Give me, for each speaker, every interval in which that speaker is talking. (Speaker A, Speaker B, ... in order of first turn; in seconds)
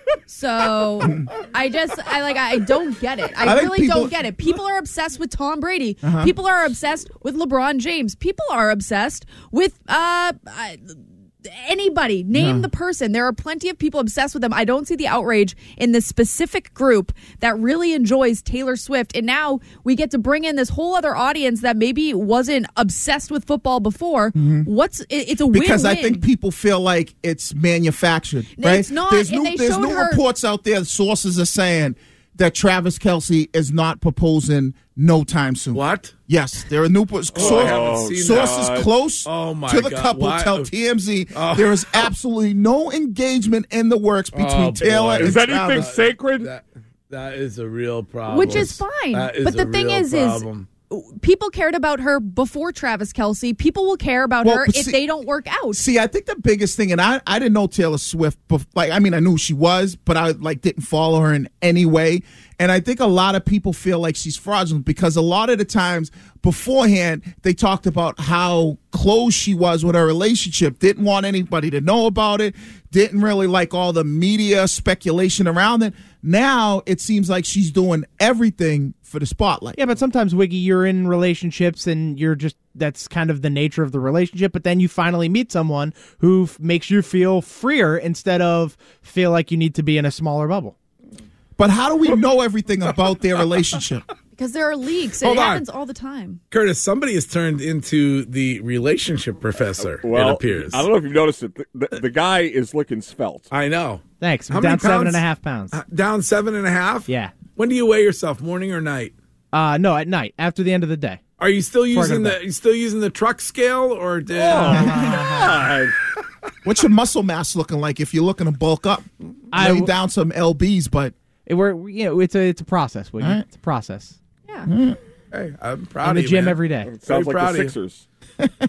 Speaker A: 0.3-26.2, 28.6-30.2, 48.3-55.8, 94.3-96.4
Speaker B: 3.4-4.1, 6.0-6.3, 12.3-12.7, 24.4-24.7, 25.5-45.9, 54.4-55.0, 55.7-79.8, 91.6-94.0, 114.7-115.3, 116.6-121.1, 124.7-125.0
Speaker C: 35.7-36.1, 37.3-40.7, 41.3-42.1, 44.3-50.7, 95.2-95.7, 96.5-100.9, 103.5-109.2, 111.4-114.9, 125.3-127.8
Speaker D: 37.4-38.9, 45.1-46.5, 99.8-103.5, 114.3-116.0, 126.8-128.0
Speaker E: 79.8-90.8, 104.2-105.8, 107.1-107.3, 109.5-111.2, 111.9-112.4, 114.9-115.3, 119.5-119.9, 121.5-124.2, 126.0-126.9